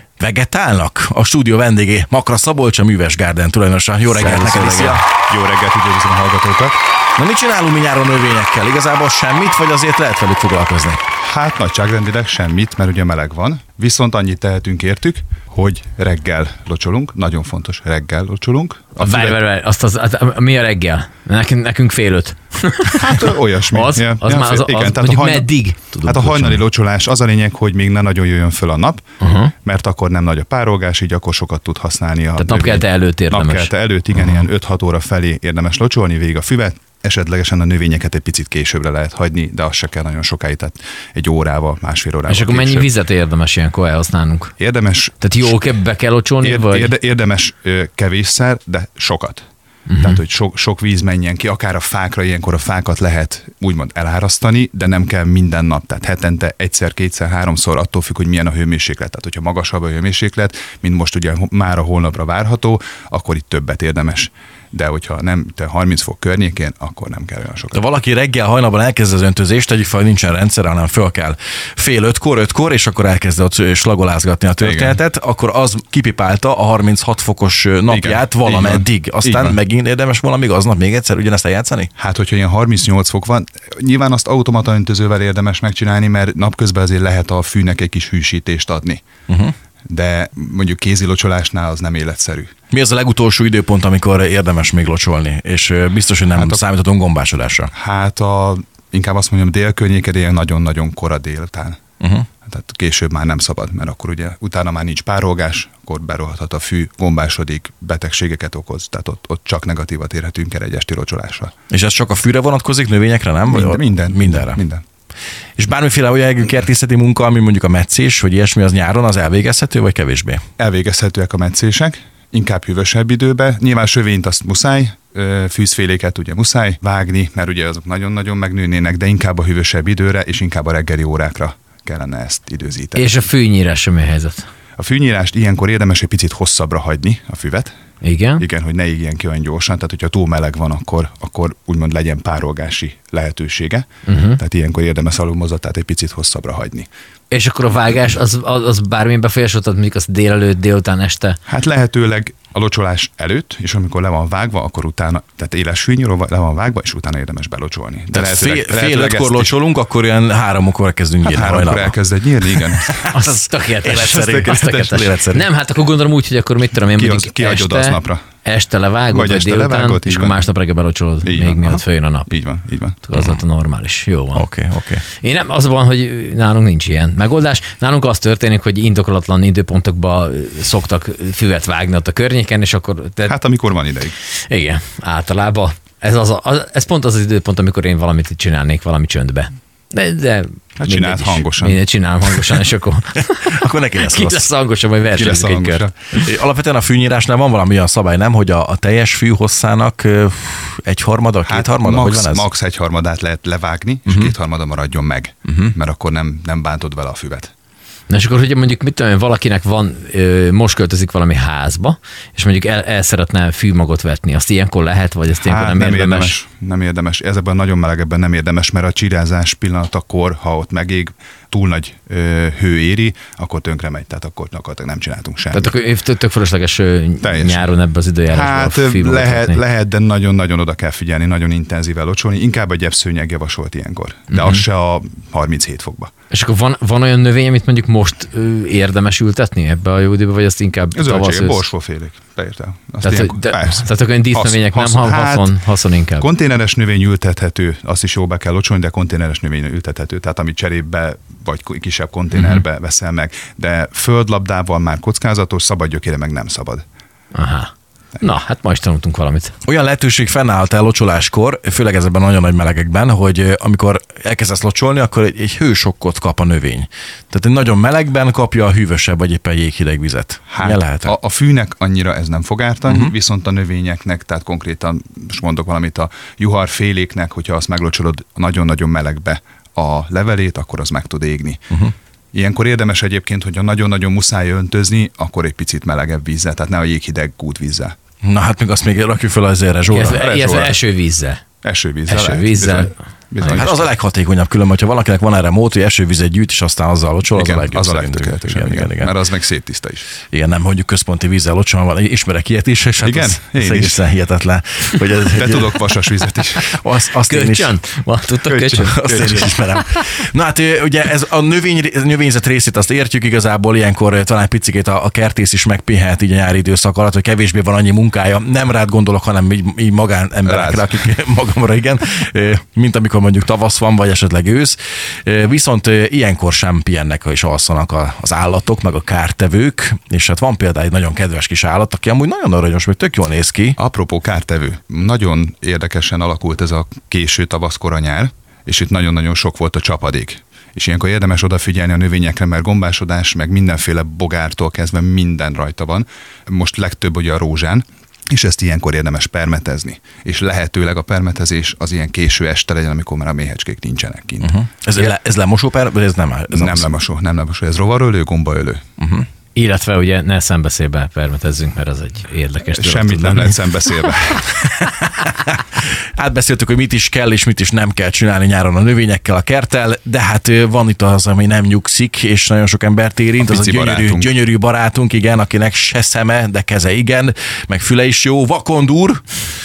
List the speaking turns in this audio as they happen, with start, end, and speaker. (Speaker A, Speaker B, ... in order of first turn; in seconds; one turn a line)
Speaker A: 0.2-5.0
Speaker B: 4.1-5.0
Speaker C: 5.2-6.8
Speaker A: 7.2-11.0
Speaker C: 11.2-19.4
Speaker B: 19.0-26.6
Speaker C: 23.0-25.5
Speaker C: 26.0-29.0
Speaker B: 29.2-29.5
Speaker C: 29.6-42.9
Speaker B: 32.4-33.7
Speaker B: 42.3-44.5
Speaker C: 44.6-45.6
Speaker B: 45.2-46.9
Speaker C: 46.4-49.4
Speaker B: 49.9-50.2
Speaker C: 50.0-67.8
Speaker A: 67.7-81.9
Speaker C: 74.6-75.0
Speaker C: 77.9-79.6
Speaker C: 82.0-89.0
Speaker A: 89.3-89.5
Speaker C: 89.9-92.5
Speaker A: 92.7-97.7
Speaker C: 96.3-96.6
Speaker C: 97.7-101.8
Speaker A: 102.0-102.3
Speaker C: 102.5-111.5
Speaker A: 111.7-114.6
Speaker C: 113.5-114.8
Speaker A: 115.6-120.4
Speaker C: 120.6-133.2
Speaker B: 132.9-134.5
Speaker C: 134.8-137.7
Speaker B: 138.0-138.4
Speaker C: 138.4-146.9
Speaker B: 144.1-144.4
Speaker B: 147.3-151.4
Speaker C: 151.5-159.5
Speaker A: 158.1-165.4
Speaker C: 161.2-163.0
Speaker B: 163.1-172.3
Speaker C: 167.0-168.2
Speaker C: 169.1-170.4
Speaker C: 171.2-173.0
Speaker B: 173.1-174.4
Speaker A: 173.1-173.4
Speaker A: 174.3-175.1
Speaker B: 175.1-183.4
Speaker C: 183.3-184.2
Speaker B: 184.3-195.9
Speaker C: 190.8-191.8
Speaker A: 193.3-194.5
Speaker C: 195.1-195.9
Speaker A: 196.2-202.5
Speaker C: 201.5-207.5
Speaker A: 204.1-204.3
Speaker B: 208.1-216.4
Speaker C: 215.4-225.7
Speaker B: 225.5-229.6
Speaker C: 227.2-227.7
Speaker C: 228.3-236.1
Speaker B: 234.3-234.6
Speaker B: 236.3-241.7
Speaker C: 240.9-245.5
Speaker B: 243.0-246.3
Speaker C: 246.2-256.8
Speaker B: 252.3-252.6
Speaker B: 257.3-259.5
Speaker A: 259.6-271.2
Speaker C: 270.5-281.7
Speaker A: 272.9-273.1
Speaker C: 282.3-287.9
Speaker A: 288.2-290.7
Speaker B: 289.9-291.4
Speaker C: 290.0-290.8
Speaker C: 291.6-293.9
Speaker B: 292.1-292.9
Speaker A: 293.5-299.1
Speaker C: 297.3-300.1
Speaker A: 300.3-306.0
Speaker C: 303.0-304.0
Speaker C: 305.3-306.7
Speaker A: 306.7-307.7
Speaker B: 307.3-309.1
Speaker C: 308.5-309.5
Speaker A: 308.7-333.8
Speaker C: 320.4-320.9
Speaker C: 333.8-354.6
Speaker A: 354.4-356.9
Speaker C: 356.5-358.8
Speaker A: 359.0-359.3
Speaker B: 359.6-363.5
Speaker C: 362.7-364.5
Speaker A: 364.6-379.2
Speaker C: 373.4-374.3